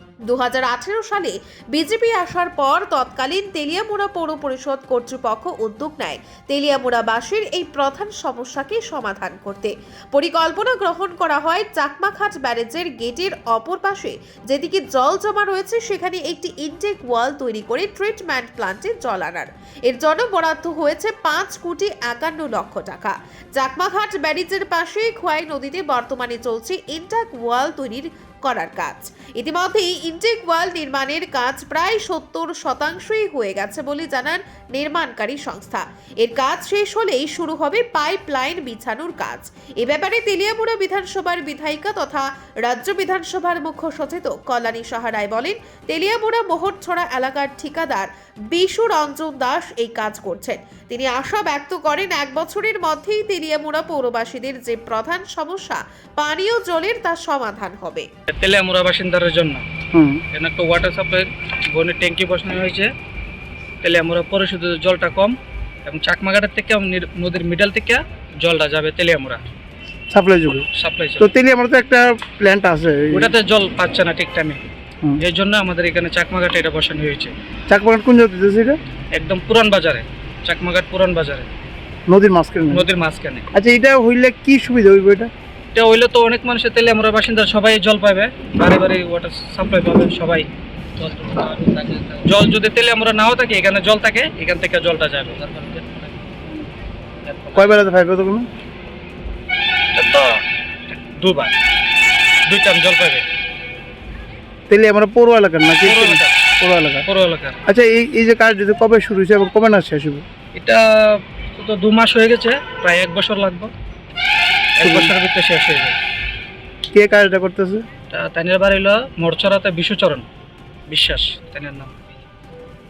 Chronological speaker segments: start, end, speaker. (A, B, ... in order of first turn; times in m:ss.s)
0:00.3-0:58.1 A
0:58.3-0:59.6 B
0:59.9-1:00.2 C
1:00.3-1:02.9 B
1:03.8-1:09.4 B
1:10.1-1:10.7 C
1:10.7-1:11.3 B
1:11.2-1:13.3 C
1:13.1-1:14.6 B
1:15.2-1:17.3 B
1:17.7-1:18.8 C
1:19.1-1:21.5 B
1:22.1-1:22.8 C
1:22.7-1:23.4 B
1:23.5-1:25.3 C
1:25.7-1:36.2 B
1:37.2-1:37.8 B
1:37.5-1:38.5 C
1:39.9-1:41.5 B
1:42.5-1:43.2 B
1:44.7-1:47.0 C
1:45.8-1:46.4 B
1:47.0-1:47.6 B
1:47.6-1:50.2 C
1:50.6-1:53.7 B
1:54.8-1:56.0 B
1:54.8-1:55.1 C
1:56.9-1:57.8 C
1:58.1-2:00.2 B
2:00.9-2:01.9 B